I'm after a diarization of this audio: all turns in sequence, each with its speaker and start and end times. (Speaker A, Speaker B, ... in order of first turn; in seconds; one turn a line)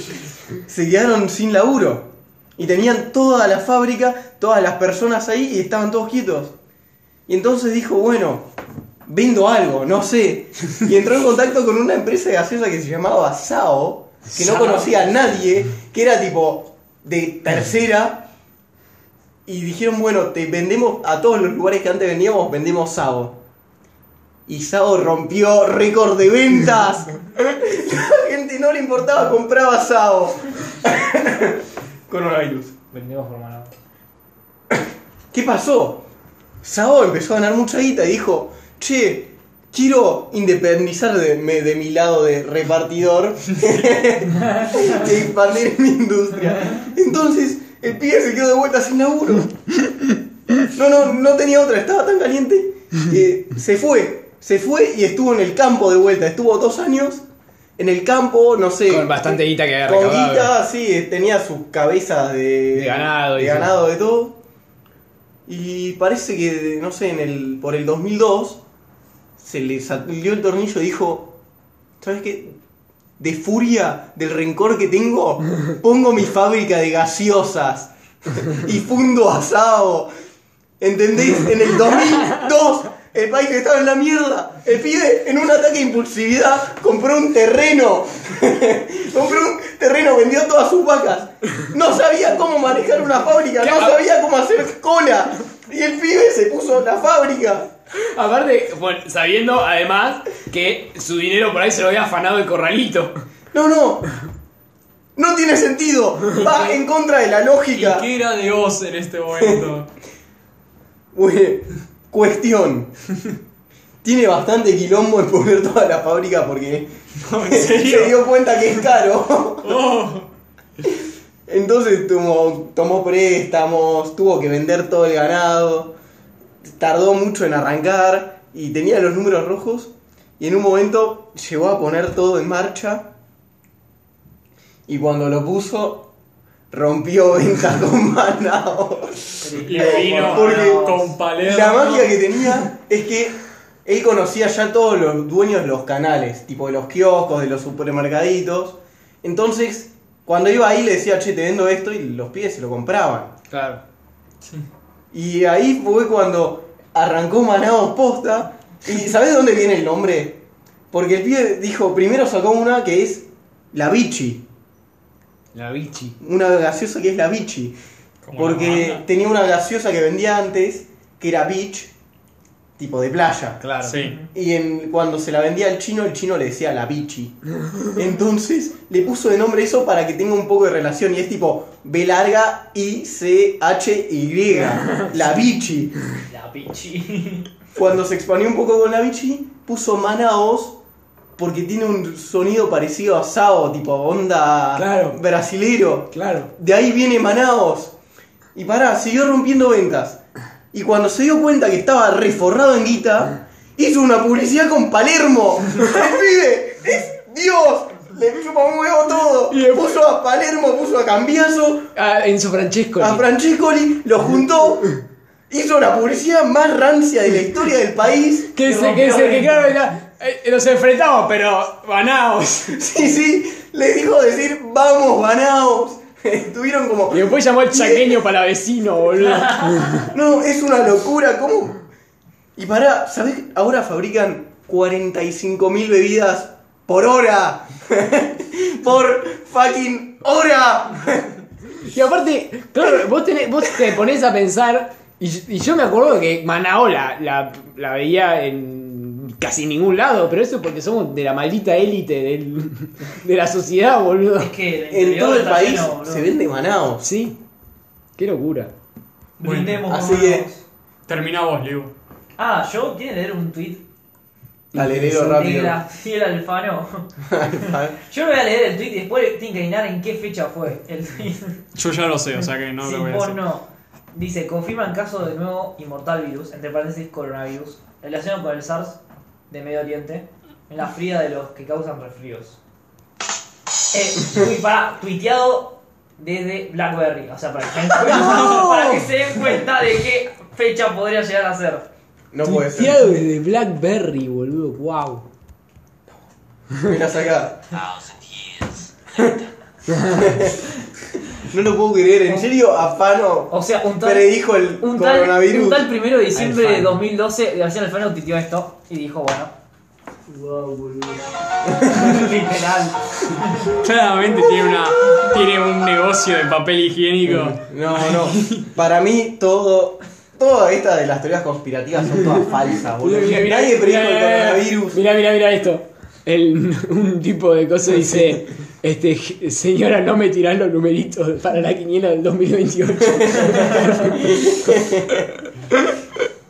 Speaker A: 0.7-6.5
Speaker A: 7.3-8.5
Speaker A: 9.1-18.3
Speaker B: 14.3-14.9
Speaker A: 19.5-23.4
Speaker A: 24.5-32.7
Speaker C: 32.7-33.7
Speaker A: 35.3-36.0
Speaker A: 36.6-49.6
Speaker A: 50.6-57.2
Speaker A: 57.8-64.4
Speaker B: 58.9-60.5
Speaker B: 62.7-63.8
Speaker A: 65.5-68.6
Speaker A: 69.4-71.3
Speaker A: 72.0-72.5
Speaker A: 73.2-80.1
Speaker A: 80.8-97.7
Speaker B: 93.6-94.0
Speaker B: 98.0-103.2
Speaker A: 103.5-104.1
Speaker A: 105.2-108.1
Speaker D: 106.4-106.8
Speaker D: 107.7-109.9
Speaker A: 111.1-112.9
Speaker A: 114.0-116.9
Speaker D: 117.2-118.2
Speaker A: 117.5-119.8
Speaker D: 119.6-120.3
Speaker A: 121.5-125.9
Speaker A: 126.6-133.1
Speaker A: 134.9-136.1
Speaker A: 136.7-153.3
Speaker C: 139.4-141.1
Speaker D: 139.6-142.6
Speaker B: 153.5-153.8
Speaker A: 155.1-160.4
Speaker A: 160.9-164.4
Speaker B: 165.5-166.2
Speaker A: 166.2-167.8
Speaker D: 168.2-169.1
Speaker A: 168.4-171.9
Speaker A: 172.8-173.6
Speaker B: 173.6-174.0
Speaker D: 173.8-174.2
Speaker A: 174.3-186.0
Speaker C: 186.3-187.5
Speaker A: 187.8-190.8
Speaker A: 191.4-197.9
Speaker B: 194.7-195.2
Speaker B: 196.1-196.5
Speaker A: 198.6-200.2
Speaker A: 200.7-211.9
Speaker B: 209.5-210.0
Speaker B: 212.0-213.3
Speaker A: 213.0-218.5
Speaker B: 218.5-222.9
Speaker C: 218.6-219.8
Speaker A: 222.7-228.2
Speaker B: 227.1-230.1
Speaker C: 229.2-230.1
Speaker A: 230.1-231.9
Speaker A: 232.6-241.4
Speaker B: 241.8-254.5
Speaker C: 254.4-256.3
Speaker A: 254.9-257.1
Speaker B: 257.0-257.4
Speaker B: 258.2-258.7
Speaker C: 259.4-260.6
Speaker D: 259.4-259.9
Speaker A: 259.8-260.5
Speaker D: 261.1-261.9
Speaker C: 262.4-263.8
Speaker B: 264.7-265.1
Speaker A: 264.7-265.8
Speaker C: 264.9-267.1
Speaker A: 267.3-268.0
Speaker C: 267.6-271.6
Speaker D: 271.8-273.4
Speaker C: 272.8-282.6
Speaker C: 283.9-291.9
Speaker B: 288.1-289.0
Speaker A: 292.3-293.0
Speaker B: 292.4-295.3
Speaker A: 296.8-297.6
Speaker A: 299.1-299.5
Speaker A: 300.0-300.6
Speaker A: 301.4-305.9
Speaker C: 303.5-309.5
Speaker B: 306.3-307.0
Speaker C: 310.3-313.7
Speaker D: 313.7-318.6
Speaker A: 317.3-325.0
Speaker B: 323.0-336.0
Speaker A: 328.0-328.4
Speaker A: 334.8-335.1